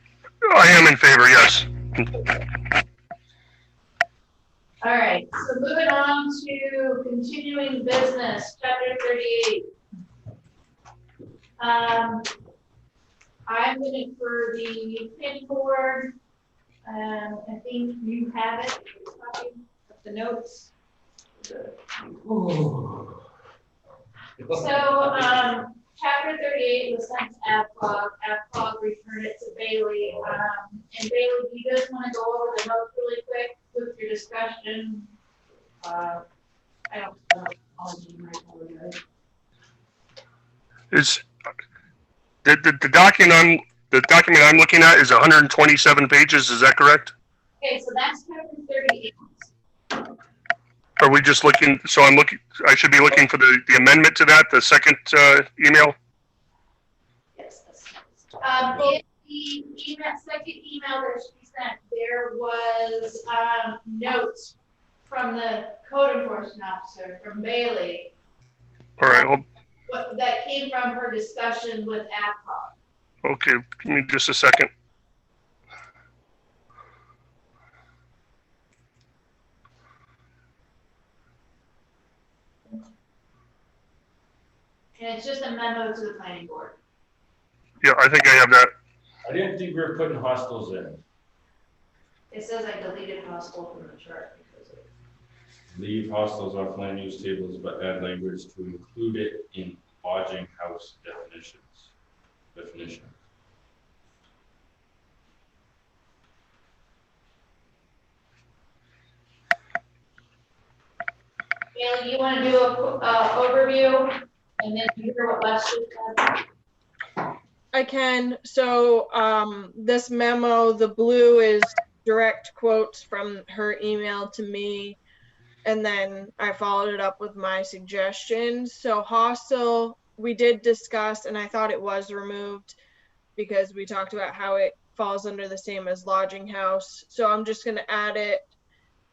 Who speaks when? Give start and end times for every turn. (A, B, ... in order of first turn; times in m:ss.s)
0:00.5-0:02.1 A
0:04.8-0:09.7 B
0:11.6-0:12.3 B
0:13.5-0:16.1 B
0:16.8-0:20.7 B
0:21.4-0:21.7 B
0:22.2-0:23.2 C
0:24.5-0:35.1 B
0:30.0-0:30.4 C
0:35.8-0:36.2 B
0:36.9-0:39.0 B
0:40.9-0:41.2 A
0:42.4-0:47.1 A
0:47.6-0:49.5 B
0:51.0-0:56.0 A
0:57.4-1:08.1 B
1:09.0-1:09.4 A
1:09.1-1:09.3 B
1:09.9-1:12.8 B
1:13.2-1:14.7 A
1:25.0-1:26.8 B
1:27.8-1:28.7 A
1:29.3-1:31.0 C
1:32.3-1:34.9 B
1:35.7-1:41.9 C
1:42.5-1:43.1 C
1:51.8-1:56.4 B
1:57.7-2:05.0 D
2:05.6-2:12.8 D
2:13.4-2:18.5 D